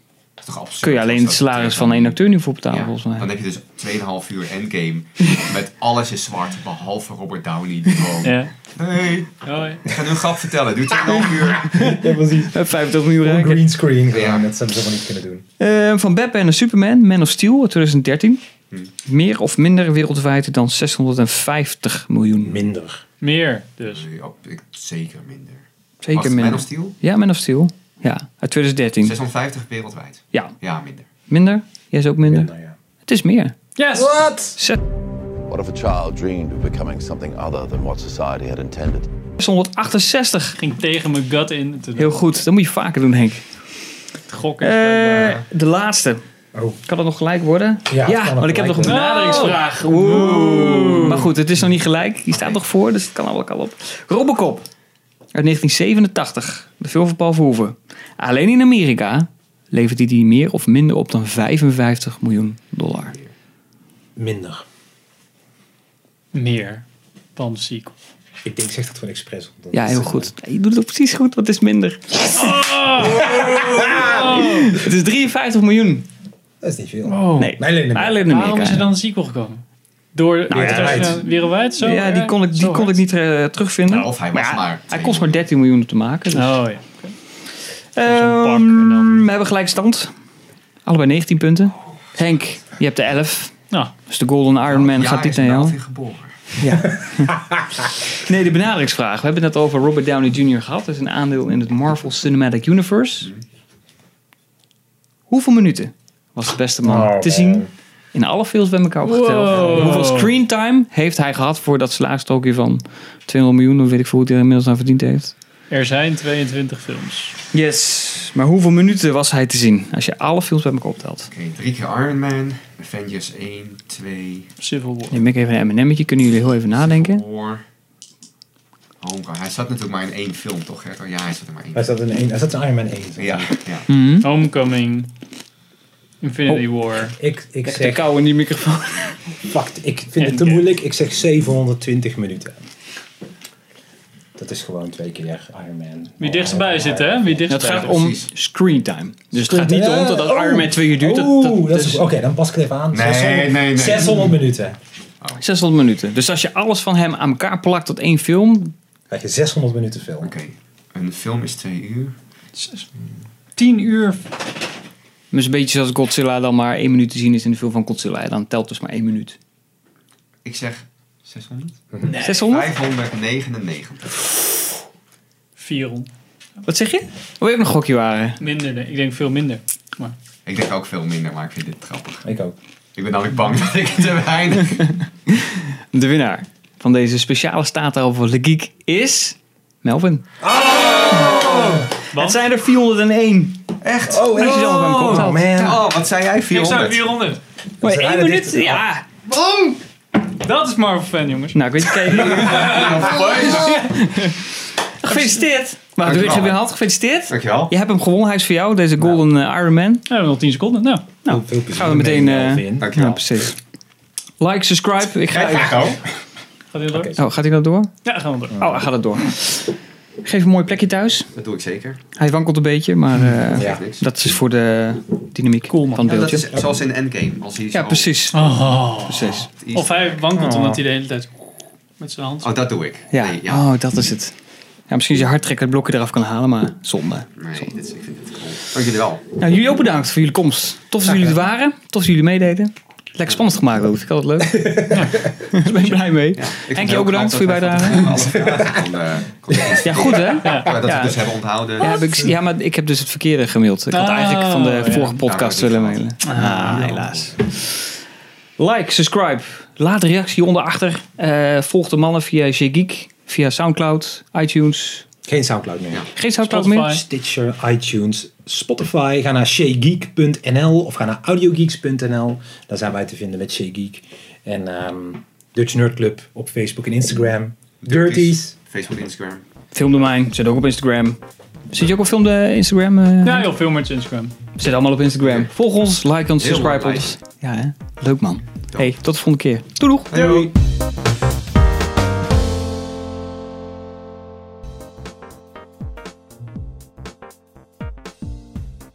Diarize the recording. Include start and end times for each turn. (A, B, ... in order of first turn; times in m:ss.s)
0:00.4-0:02.2 A
0:00.8-0:03.3 B
0:02.7-0:11.7 A
0:08.2-0:08.5 C
0:09.4-0:09.8 C
0:11.1-0:13.6 B
0:11.6-0:15.4 D
0:14.1-0:14.5 A
0:15.6-0:18.4 B
0:19.0-0:22.6 B
0:22.4-0:23.0 D
0:23.2-0:24.1 C
0:23.8-0:27.0 A
0:26.0-0:29.2 B
0:29.0-0:31.1 A
0:31.3-0:32.5 B
0:32.3-0:32.8 D
0:33.1-0:33.6 B
0:33.8-0:34.3 C
0:33.9-0:34.6 D
0:35.5-0:39.1 E
0:39.4-0:40.6 B
0:40.6-0:42.2 C
0:42.0-0:43.4 B
0:44.3-0:45.4 C
0:44.6-0:46.2 B
0:46.5-0:46.8 D
0:46.8-0:54.7 B
0:47.9-0:49.0 D
0:48.8-0:51.3 C
0:55.3-1:03.2 B
1:03.0-1:03.3 A
1:04.2-1:04.7 D
1:06.3-1:08.0 C
1:08.4-1:10.3 D
1:09.7-1:16.1 B
1:12.3-1:14.8 C
1:13.0-1:14.4 D
1:16.6-1:18.3 D
1:17.1-1:17.5 C
1:17.4-1:18.9 B
1:18.2-1:19.6 C
1:20.1-1:23.0 C
1:20.5-1:21.2 B
1:20.5-1:21.3 D
1:21.8-1:26.6 B
1:23.9-1:25.4 A
1:26.3-1:27.2 C
1:28.0-1:30.1 B
1:28.0-1:29.3 C
1:30.8-1:35.8 B
1:34.7-1:36.5 A
1:36.6-1:37.4 B
1:37.1-1:37.7 D
1:38.0-1:43.3 B
1:45.3-1:55.3 B
1:46.8-1:47.7 D
1:49.0-1:50.3 C
1:55.7-1:57.4 C
1:57.5-2:01.3 B
2:01.3-2:04.5 A
2:04.6-2:05.3 C
2:05.1-2:07.2 B
2:06.8-2:07.6 A
2:09.0-2:11.9 A
2:11.7-2:13.6 D
2:13.2-2:13.9 A
2:13.9-2:15.1 C
2:16.2-2:17.2 C
2:17.1-2:18.1 D
2:17.6-2:19.2 B
2:19.4-2:22.6 D
2:20.2-2:20.7 C
2:24.4-2:27.5 D
2:26.2-2:28.1 C
2:27.5-2:32.1 B
2:27.7-2:28.3 A
2:29.4-2:34.8 D
2:32.9-2:34.4 A
2:35.4-2:38.7 B
2:39.1-2:40.3 D
2:40.2-2:42.2 A
2:42.6-2:42.9 C
2:43.6-2:44.3 C
2:45.3-2:49.4 B
2:50.4-2:54.2 A
2:52.2-2:52.7 B
2:55.6-2:56.1 C
2:56.7-2:58.4 B
2:58.4-3:00.2 C
3:00.5-3:02.3 A
3:02.2-3:02.5 D
3:03.0-3:04.9 A
3:05.3-3:10.3 B
3:10.4-3:11.9 D
3:11.2-3:11.5 B
3:12.1-3:12.4 C
3:12.1-3:13.6 B
3:13.8-3:14.4 A
3:14.1-3:15.8 D
3:14.3-3:15.5 B
3:15.5-3:17.2 A
3:16.5-3:17.4 C
3:17.8-3:19.8 D
3:17.8-3:19.1 B
3:20.4-3:21.6 C
3:21.5-3:24.4 B
3:22.1-3:23.9 A
3:22.2-3:23.7 C
3:25.0-3:30.0 B
3:25.1-3:25.4 C
3:26.0-3:26.7 A
3:27.3-3:27.7 A
3:30.1-3:31.1 C
3:31.2-3:33.6 B
3:31.3-3:33.0 D
3:32.8-3:33.2 A
3:34.4-3:35.9 B
3:35.2-3:36.0 A
3:36.7-3:37.2 C
3:36.9-3:37.2 D
3:37.2-3:37.9 B
3:38.0-3:38.7 C
3:38.6-3:41.3 B
3:41.3-3:42.0 A
3:42.2-3:46.5 B
3:43.5-3:44.1 A
3:43.6-3:43.8 D
3:45.7-3:46.2 C
3:46.0-3:48.6 A
3:47.7-3:48.5 B
3:48.3-3:52.6 C
3:49.0-3:49.5 B
3:49.6-3:50.4 A
3:50.3-3:50.8 D
3:52.4-3:53.7 A
3:53.1-3:54.4 B
3:54.9-3:57.7 B
3:57.4-3:59.2 A
3:59.4-4:08.2 B
4:04.5-4:05.1 D
4:06.3-4:12.0 A
4:09.5-4:10.1 D
4:09.8-4:11.2 B
4:10.4-4:10.8 C
4:11.8-4:17.9 B
4:13.9-4:15.2 C
4:15.3-4:17.3 A
4:16.2-4:17.0 C
4:18.6-4:25.1 B
4:25.2-4:26.1 D
4:26.2-4:27.0 B
4:26.4-4:27.0 C
4:26.7-4:38.5 D
4:37.8-4:39.4 A
4:39.7-4:41.2 B
4:41.7-4:43.5 B
4:43.2-4:44.4 C
4:44.6-4:50.4 B
4:45.2-4:45.5 A
4:46.4-4:47.2 A
4:50.1-4:50.5 A